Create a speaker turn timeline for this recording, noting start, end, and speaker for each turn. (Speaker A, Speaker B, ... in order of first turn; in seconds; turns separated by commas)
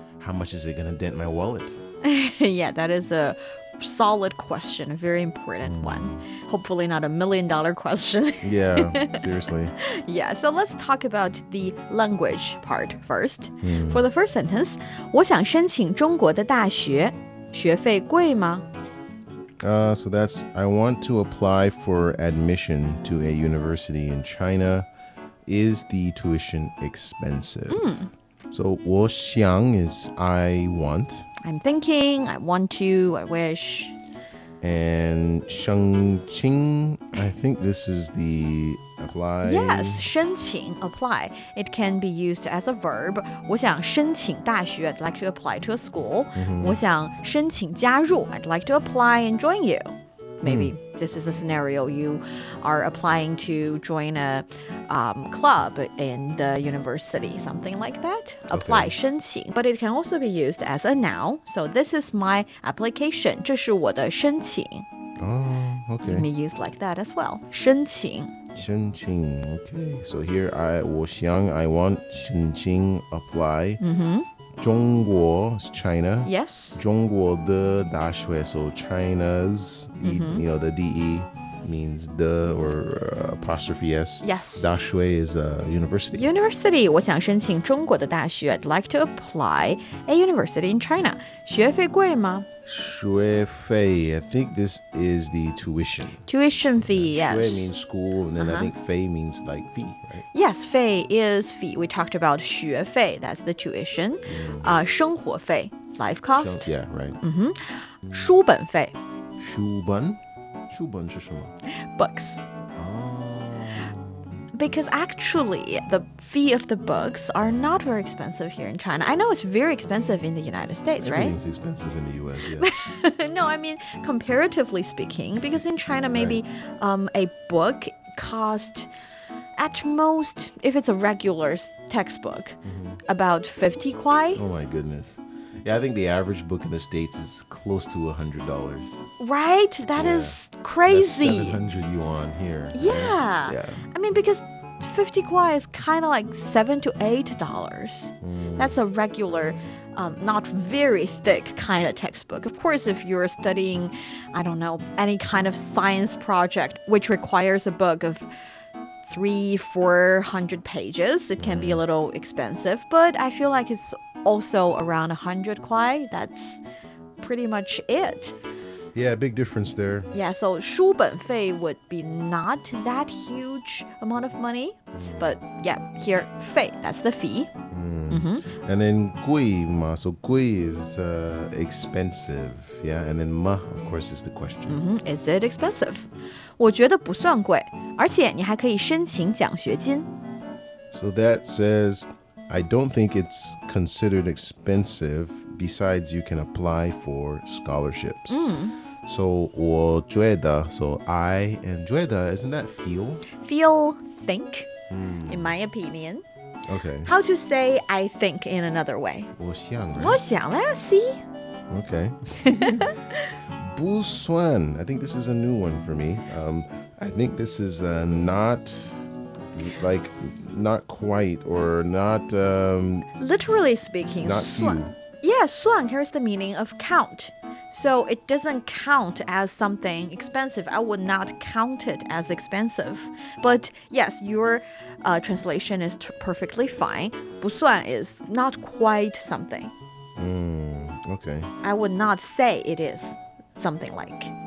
Speaker A: 0.2-1.8, Speaker B: 2.0-9.2, Speaker A: 5.6-6.2, Speaker A: 8.4-9.8, Speaker B: 9.8-18.6, Speaker A: 13.6-14.1, Speaker A: 19.6-24.9, Speaker A: 25.5-27.9, Speaker B: 27.7-28.1, Speaker A: 28.5-31.3, Speaker B: 31.4-34.0, Speaker A: 34.6-40.1, Speaker B: 39.4-64.9, Speaker A: 46.4-46.8, Speaker A: 50.4-50.7, Speaker A: 58.5-58.9, Speaker A: 65.2-66.3, Speaker B: 66.0-68.3, Speaker A: 68.5-73.8, Speaker B: 73.8-74.3, Speaker A: 74.6-86.3, Speaker B: 76.2-76.8, Speaker B: 80.0-80.4, Speaker B: 84.2-84.7, Speaker B: 86.1-92.5, Speaker A: 92.7-96.3, Speaker B: 96.3-97.7, Speaker A: 96.8-100.2, Speaker B: 98.4-98.7, Speaker B: 100.3-109.0, Speaker A: 104.3-104.7, Speaker A: 106.3-107.2, Speaker A: 109.4-111.5, Speaker B: 112.0-112.4, Speaker A: 112.8-114.2, Speaker B: 114.5-121.3, Speaker A: 121.0-122.7, Speaker B: 122.6-128.9, Speaker A: 126.1-126.4, Speaker B: 129.6-134.4, Speaker A: 132.6-133.0, Speaker A: 134.3-139.1, Speaker B: 139.2-141.6, Speaker A: 139.9-143.8, Speaker B: 142.7-158.3, Speaker A: 148.2-148.8, Speaker B: 159.1-166.6, Speaker A: 161.4-161.8, Speaker B: 167.2-168.3, Speaker A: 168.9-170.1, Speaker B: 170.1-177.5, Speaker A: 174.9-175.4, Speaker A: 177.7-184.8, Speaker B: 178.1-178.4, Speaker B: 184.7-190.1, Speaker A: 190.9-198.5, Speaker B: 198.3-198.7, Speaker A: 199.1-203.2, Speaker B: 203.3-204.7, Speaker A: 204.9-205.5, Speaker B: 205.3-206.2, Speaker A: 206.7-207.1, Speaker B: 207.1-209.3, Speaker A: 209.3-210.2, Speaker B: 209.9-211.2, Speaker A: 211.7-212.9, Speaker B: 212.4-213.3, Speaker A: 213.6-219.0, Speaker A: 219.5-223.1, Speaker B: 223.2-239.7, Speaker A: 224.2-224.9, Speaker A: 240.2-241.5, Speaker B: 241.6-244.3